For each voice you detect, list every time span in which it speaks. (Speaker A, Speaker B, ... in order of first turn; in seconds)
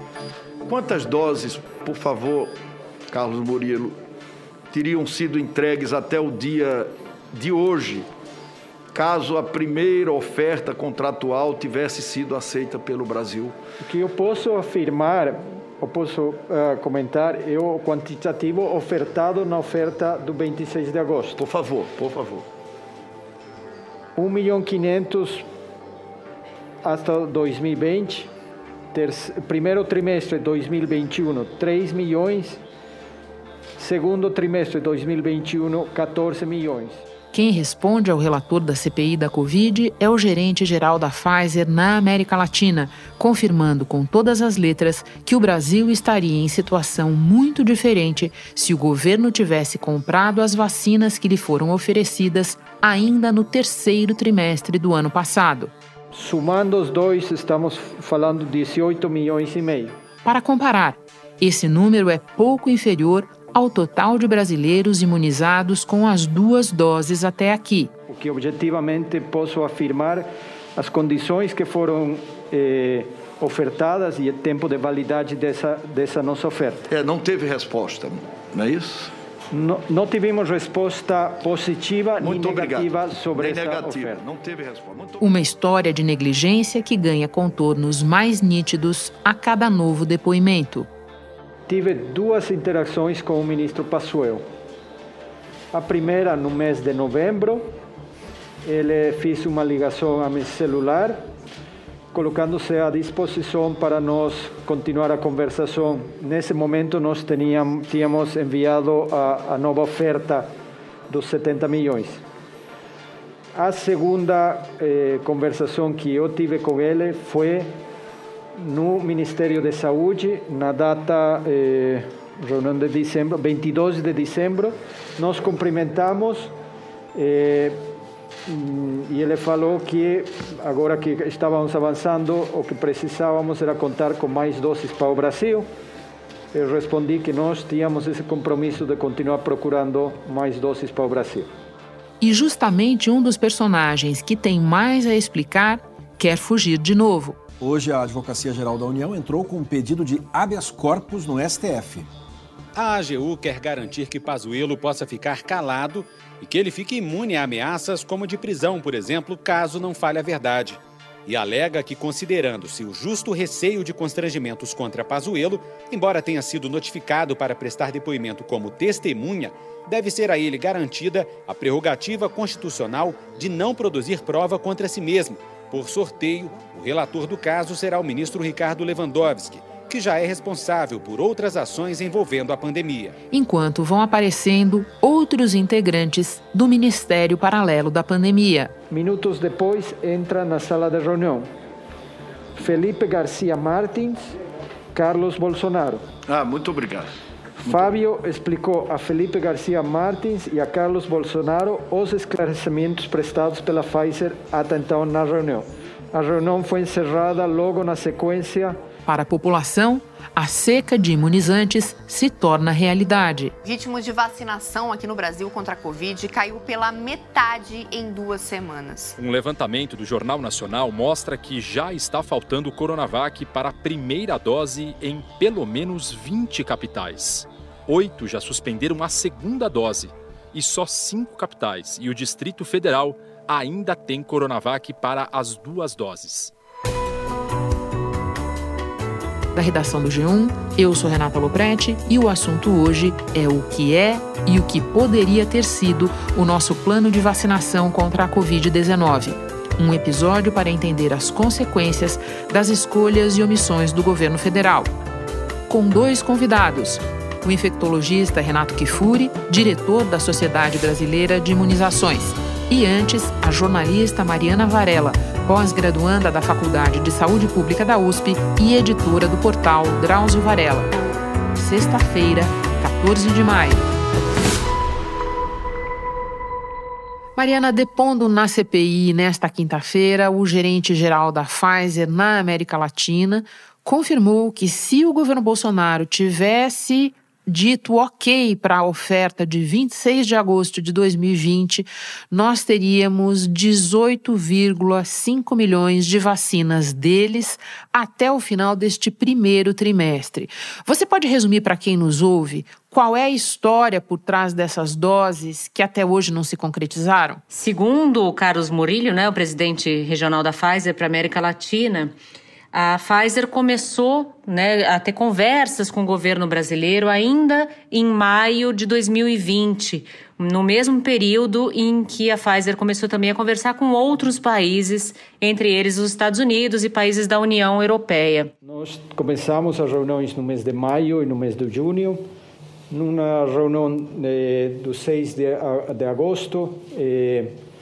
Speaker A: 0.7-2.5, 3.1-4.0, 4.7-8.1, 8.9-13.6, 21.4-22.5, 76.9-79.1, 82.2-85.3, 196.3-197.1, 197.7-197.9
Speaker B: 13.8-21.4, 24.2-25.5, 26.8-28.3, 28.9-32.6, 33.8-37.0, 56.1-60.0, 68.1-76.9, 79.5-84.2, 91.7-94.5, 95.7-97.8, 98.6-101.3, 102.1-110.5, 111.1-112.2, 113.5-117.8, 118.6-126.5, 127.2-127.9, 128.5-135.7, 136.5-141.5, 188.9-191.5, 192.6-194.3, 194.9-196.1, 197.6-208.8, 328.6-332.2, 332.9-337.6
Speaker C: 37.3-55.7, 60.2-67.9, 85.2-90.9, 142.2-147.4, 183.3-188.7, 209.1-213.6, 239.6-254.9, 255.7-270.9, 271.6-273.9, 277.4-307.4
Speaker D: 147.6-152.1
Speaker E: 152.8-183.2
Speaker F: 213.6-219.2
Speaker G: 219.2-236.5
Speaker H: 307.5-312.1, 312.7-328.5